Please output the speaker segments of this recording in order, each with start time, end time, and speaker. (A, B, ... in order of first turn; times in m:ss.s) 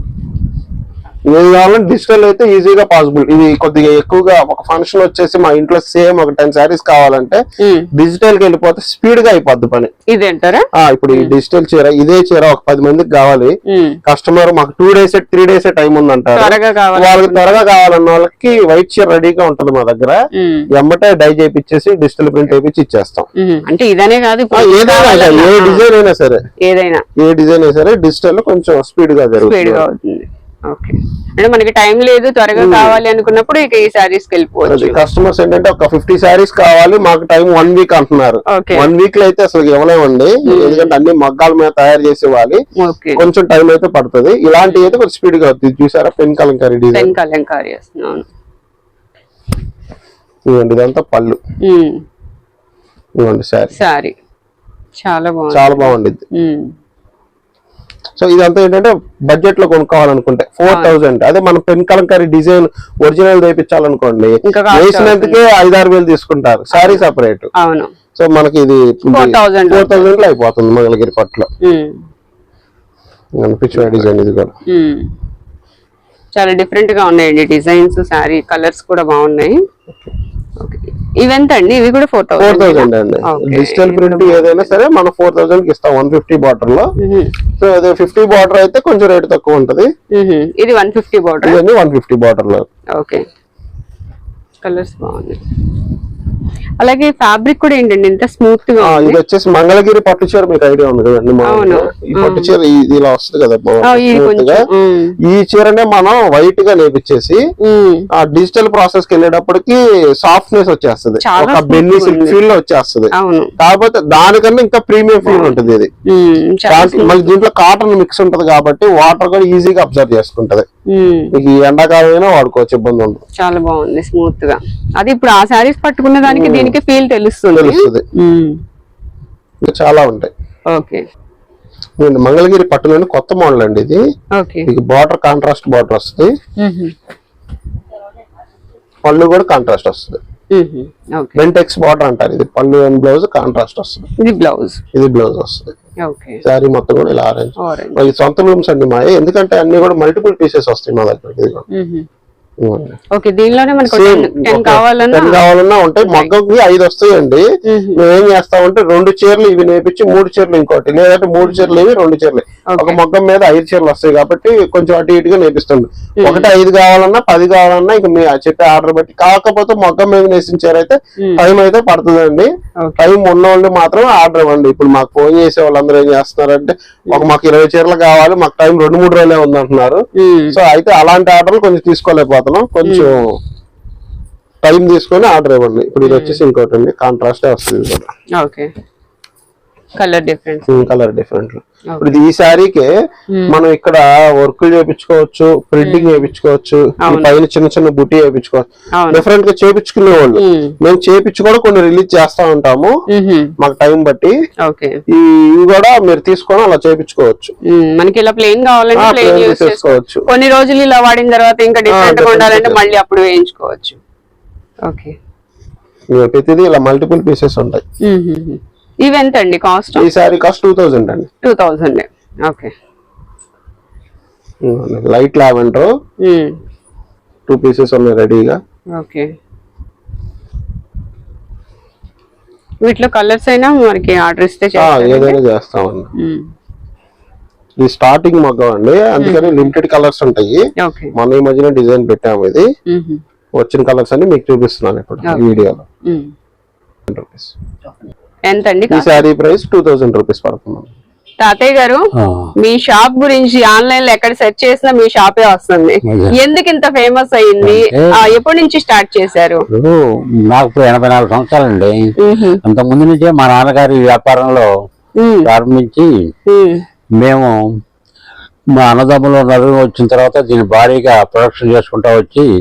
0:01.3-0:07.4 A
0:07.6-0:07.9 B
0:07.9-0:09.9 A
0:10.1-0:11.3 B
0:10.8-0:20.2 A
0:13.7-0:14.0 B
0:16.4-0:17.5 B
0:20.3-0:20.7 B
0:20.7-0:23.3 A
0:23.4-0:25.8 B
0:24.5-0:26.4 A
0:26.6-0:27.0 B
0:27.2-0:29.8 A
0:29.4-0:35.0 B
0:32.6-0:33.0 A
0:34.6-0:42.6 A
0:38.5-0:38.9 B
0:40.4-0:40.9 B
0:42.8-0:43.2 B
0:43.2-0:47.1 A
0:44.6-0:44.9 B
0:46.9-0:48.3 B
0:50.5-0:51.4 A
0:51.6-0:52.0 B
0:53.2-0:53.8 A
0:53.8-0:54.1 B
0:55.0-0:56.7 B
0:55.5-0:56.2 A
0:58.2-1:07.5 A
1:04.4-1:05.4 B
1:06.7-1:07.0 B
1:07.6-1:07.9 B
1:08.2-1:11.5 A
1:09.1-1:10.1 B
1:11.6-1:12.0 B
1:13.4-1:14.6 A
1:13.8-1:14.0 B
1:14.7-1:15.1 B
1:16.3-1:19.6 B
1:20.6-1:24.7 B
1:22.4-1:26.9 A
1:27.0-1:27.3 B
1:27.6-1:29.9 A
1:30.1-1:31.6 B
1:31.4-1:32.7 A
1:32.9-1:33.2 B
1:34.6-1:35.4 B
1:36.8-1:39.2 B
1:38.8-1:44.6 A
1:41.4-1:42.5 B
1:43.8-1:45.2 B
1:45.2-1:47.4 A
1:47.6-1:48.1 B
1:48.2-1:55.9 A
1:51.2-1:52.4 B
1:53.1-1:53.5 B
1:55.2-1:57.3 B
1:56.7-2:00.7 A
2:00.9-2:01.3 B
2:01.3-2:03.2 A
2:03.4-2:08.6 B
2:06.2-2:06.8 A
2:07.5-2:08.0 A
2:09.6-2:10.3 A
2:10.7-2:11.0 B
2:12.0-2:14.0 A
2:14.3-2:14.7 B
2:14.7-2:16.3 A
2:16.6-2:16.9 B
2:19.0-2:20.2 A
2:20.5-2:21.4 B
2:21.4-2:24.1 A
2:24.2-2:24.8 B
2:24.9-2:25.7 A
2:26.0-2:26.4 B
2:26.4-2:31.6 A
2:27.6-2:28.0 B
2:31.7-2:32.1 B
2:32.6-2:33.0 A
2:33.1-2:35.4 B
2:33.8-2:37.4 A
2:36.0-2:36.3 B
2:37.6-2:38.0 B
2:38.0-3:03.3 A
2:41.4-2:41.7 B
2:42.7-2:43.0 B
2:46.2-2:46.5 B
2:52.8-2:53.1 B
3:00.2-3:00.6 B
3:02.8-3:03.1 B
3:04.6-3:08.1 A
3:06.0-3:06.4 B
3:08.4-3:08.7 B
3:10.0-3:10.9 B
3:10.7-3:12.9 A
3:13.3-3:13.6 B
3:13.5-3:22.9 A
3:15.8-3:16.3 B
3:17.0-3:17.3 B
3:19.0-3:19.2 B
3:20.4-3:20.7 B
3:23.1-3:23.5 B
3:23.6-3:24.4 A
3:24.6-3:25.0 B
3:25.1-3:27.5 A
3:27.7-3:34.0 B
3:28.9-3:30.2 A
3:31.9-3:32.8 A
3:34.8-3:35.2 B
3:36.1-3:37.8 A
3:38.0-3:40.1 B
3:40.0-3:41.3 A
3:41.4-3:42.7 B
3:44.6-3:45.9 A
3:46.2-3:46.6 B
3:47.5-3:48.6 A
3:49.0-3:49.3 B
3:52.8-3:55.4 B
3:54.8-3:56.1 A
3:56.2-3:56.5 B
3:57.8-4:00.6 A
3:59.2-3:59.7 B
4:00.8-4:01.1 B
4:01.1-4:02.7 A
4:02.9-4:03.2 B
4:03.6-4:05.8 A
4:05.2-4:06.3 B
4:07.1-4:07.5 A
4:08.5-4:09.2 B
4:08.9-4:10.9 A
4:11.4-4:19.6 B
4:12.2-4:12.5 C
4:16.0-4:16.3 C
4:17.6-4:18.1 C
4:19.7-4:22.1 C
4:22.2-4:22.6 B
4:22.6-4:24.7 C
4:25.2-4:25.5 B
4:25.4-4:26.1 C
4:26.5-4:26.8 B
4:27.2-4:27.5 C
4:28.8-4:32.5 C